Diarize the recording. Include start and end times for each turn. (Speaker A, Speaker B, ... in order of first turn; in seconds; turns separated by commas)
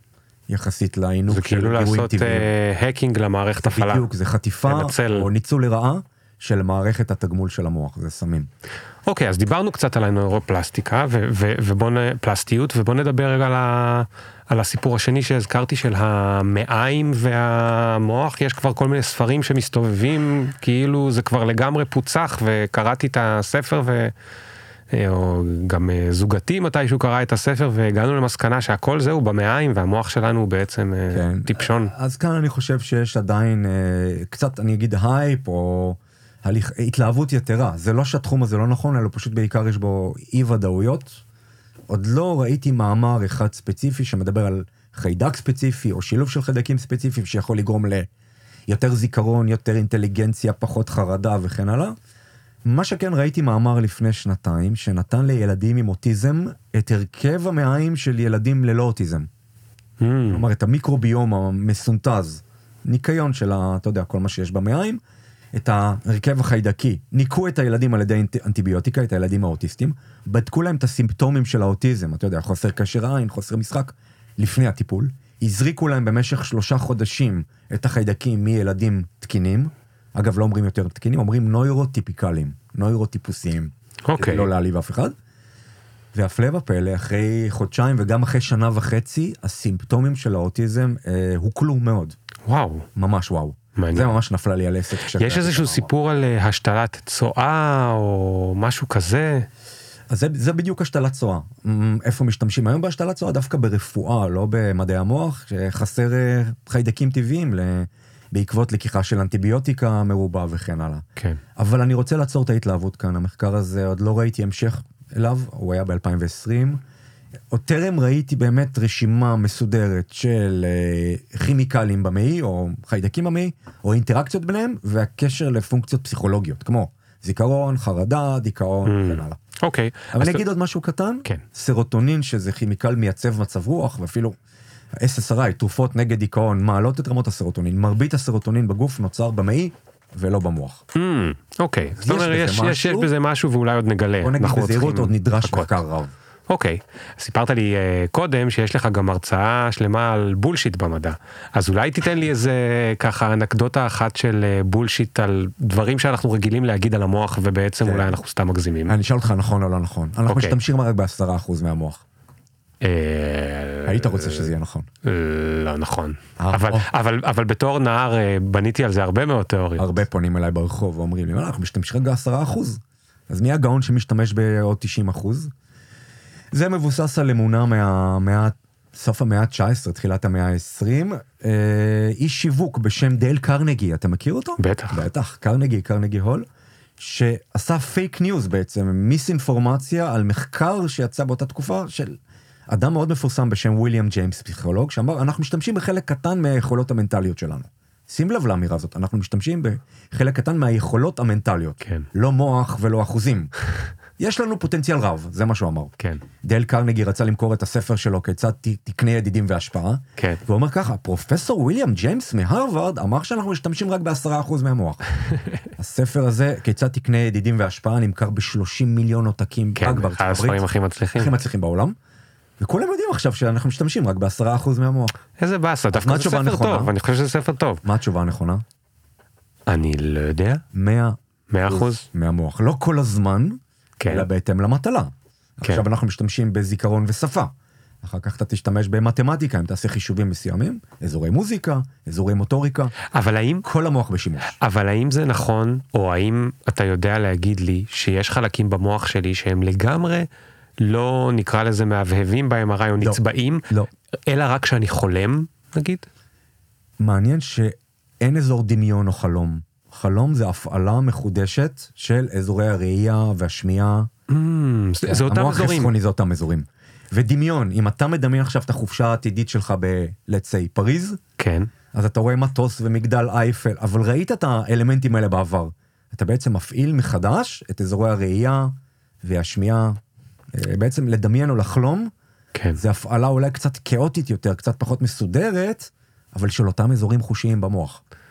Speaker A: 0.5-2.5, Speaker B: 1.3-4.1, Speaker A: 3.7-8.5, Speaker B: 4.6-5.3, Speaker B: 9.1-24.1, Speaker B: 24.9-31.9, Speaker A: 31.1-41.2, Speaker A: 41.9-48.1, Speaker A: 48.7-52.0, Speaker A: 52.6-59.3, Speaker B: 60.0-60.4, Speaker A: 60.3-65.0, Speaker A: 65.5-85.1, Speaker B: 84.1-84.5, Speaker A: 86.1-92.2, Speaker B: 92.5-92.9, Speaker A: 93.0-95.9, Speaker B: 93.8-94.2, Speaker B: 95.1-99.5, Speaker A: 100.1-111.0, Speaker A: 111.5-116.8, Speaker A: 117.5-129.4, Speaker B: 128.8-130.4, Speaker A: 130.1-134.3, Speaker A: 135.0-140.8, Speaker B: 140.9-145.8, Speaker A: 142.0-143.1, Speaker A: 144.2-146.1, Speaker B: 146.5-159.0, Speaker A: 157.8-158.1, Speaker A: 158.9-162.0, Speaker B: 160.3-160.6, Speaker B: 162.8-164.5, Speaker A: 163.8-164.9, Speaker B: 165.0-170.0, Speaker A: 166.4-166.9, Speaker A: 169.8-175.5, Speaker A: 176.5-186.4, Speaker B: 184.6-185.0, Speaker A: 187.0-203.5, Speaker B: 201.8-202.1, Speaker A: 204.2-215.0, Speaker B: 206.0-206.2, Speaker A: 215.8-220.6, Speaker B: 219.8-221.3, Speaker A: 221.2-221.9, Speaker A: 222.6-225.1, Speaker B: 225.4-227.8, Speaker A: 225.9-226.9, Speaker A: 227.8-228.6, Speaker B: 229.7-230.6, Speaker A: 230.7-231.2, Speaker B: 231.5-232.1, Speaker A: 231.7-235.1, Speaker B: 234.0-234.3, Speaker A: 235.6-237.5, Speaker A: 238.0-242.9, Speaker B: 243.1-243.6, Speaker A: 243.6-244.6, Speaker B: 244.6-250.3, Speaker B: 250.8-253.7, Speaker A: 253.0-253.9, Speaker B: 254.3-256.1, Speaker A: 257.0-264.1, Speaker B: 264.3-265.9, Speaker A: 265.0-271.2, Speaker B: 271.4-271.7, Speaker A: 271.9-280.0, Speaker A: 280.5-282.1, Speaker B: 282.5-282.8, Speaker A: 282.8-288.0